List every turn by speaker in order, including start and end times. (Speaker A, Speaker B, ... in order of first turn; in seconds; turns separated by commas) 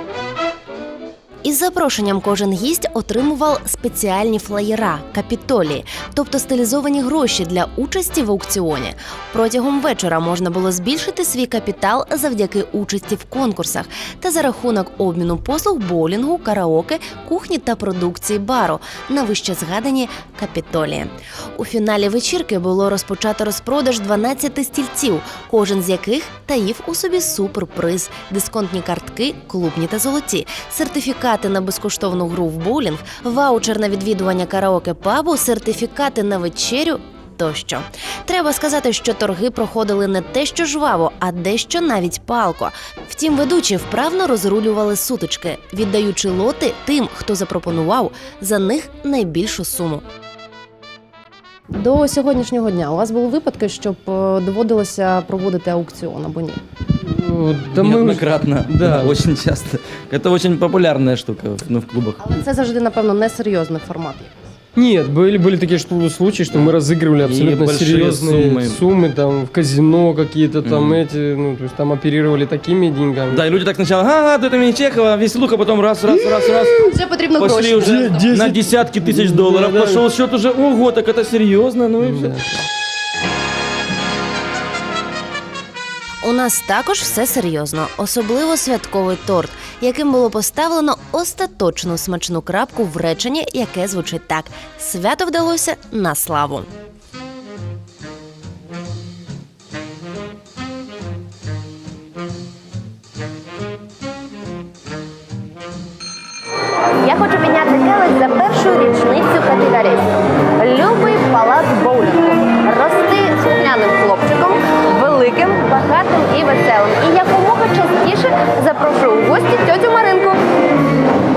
Speaker A: 1.4-50.0, Speaker B: 51.7-56.6, Speaker C: 57.0-59.2, Speaker D: 57.8-62.3, Speaker B: 62.2-64.3, Speaker C: 64.8-73.5, Speaker D: 66.5-68.8, Speaker D: 70.6-71.0, Speaker D: 73.3-82.4, Speaker B: 76.5-78.4, Speaker C: 78.3-80.0, Speaker C: 82.0-82.6, Speaker A: 86.2-96.7, Speaker E: 107.1-110.0, Speaker B: 108.0-108.6, Speaker B: 109.7-110.0, Speaker E: 110.6-120.4, Speaker B: 114.0-114.3